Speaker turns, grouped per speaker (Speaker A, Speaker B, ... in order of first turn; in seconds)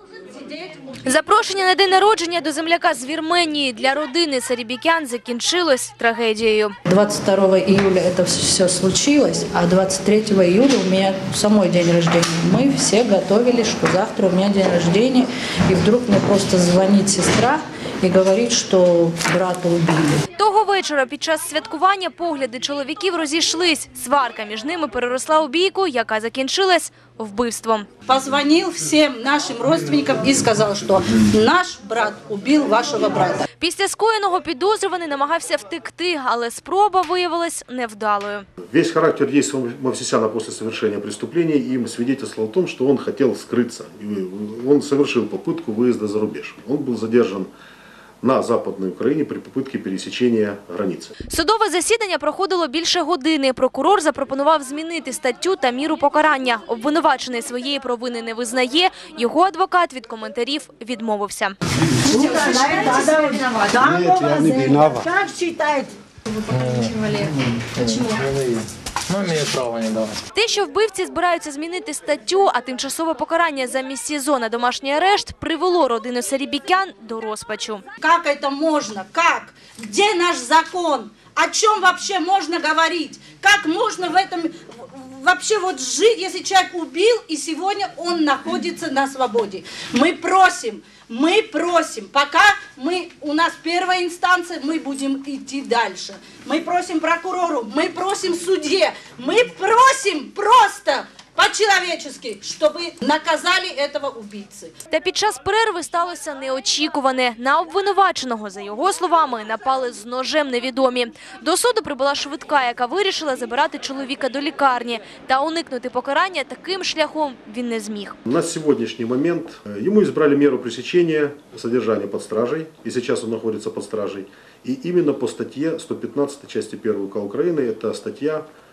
Speaker A: 1.0-6.8, 20.4-27.9, 33.6-38.5, 51.3-61.6, 62.1-63.1, 70.3-77.8, 104.9-118.2
Speaker B: 6.9-20.2, 28.1-33.4, 62.1-65.2, 78.0-104.7
Speaker C: 38.7-47.5, 48.2-51.1, 118.3-128.5
Speaker D: 62.1-64.3, 65.0-65.9
Speaker E: 66.5-67.1, 67.8-70.2